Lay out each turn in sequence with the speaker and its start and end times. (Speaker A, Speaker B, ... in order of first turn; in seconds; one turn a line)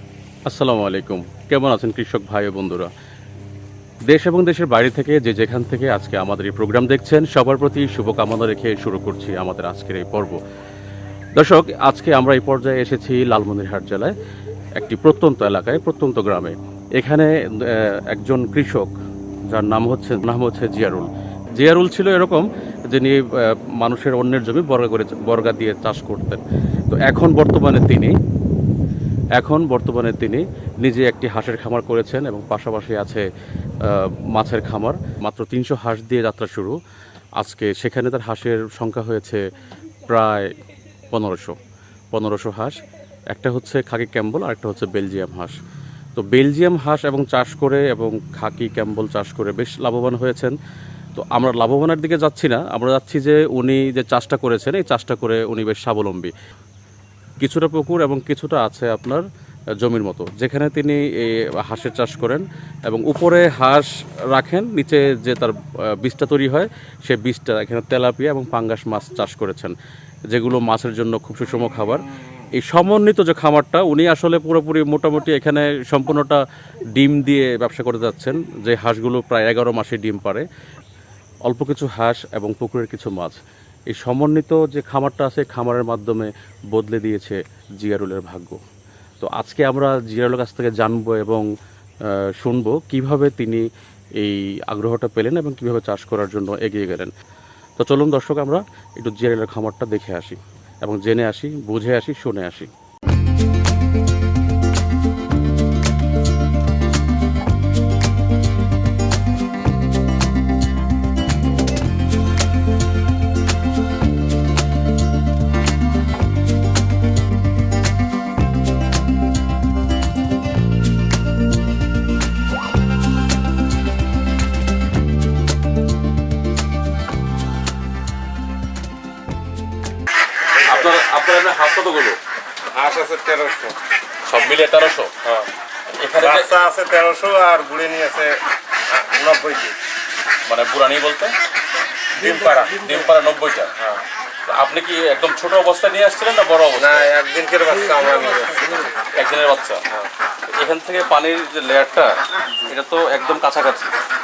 Speaker A: 0.5-2.9
Speaker A: 4.1-10.4
Speaker A: 11.4-14.1
Speaker A: 14.8-18.9
Speaker A: 19.5-23.2
Speaker A: 23.8-28.2
Speaker A: 29.4-33.3
Speaker A: 33.8-36.8
Speaker A: 37.4-39.4
Speaker A: 40.1-40.5
Speaker A: 41.1-41.5
Speaker A: 42.1-42.8
Speaker A: 43.3-45.6
Speaker A: 46.2-50.6
Speaker A: 51.1-56.3
Speaker A: 57.4-59.2
Speaker A: 59.8-69.8
Speaker A: 70.3-72.0
Speaker A: 72.6-76.4
Speaker A: 77.0-80.5
Speaker A: 81.5-83.4
Speaker A: 83.9-88.6
Speaker A: 89.2-91.5
Speaker A: 92.4-93.7
Speaker A: 94.2-97.1
Speaker A: 97.8-102.7
Speaker B: 130.6-130.9
Speaker A: 130.7-132.2
Speaker B: 132.7-133.8
Speaker A: 134.2-135.1
Speaker B: 135.2-135.5
Speaker A: 136.0-136.5
Speaker B: 136.2-138.4
Speaker B: 138.9-139.8
Speaker A: 140.5-141.3
Speaker B: 142.2-142.9
Speaker A: 142.3-143.7
Speaker B: 143.8-144.0
Speaker A: 144.5-147.1
Speaker B: 146.8-148.9
Speaker A: 149.2-149.8
Speaker A: 150.6-153.9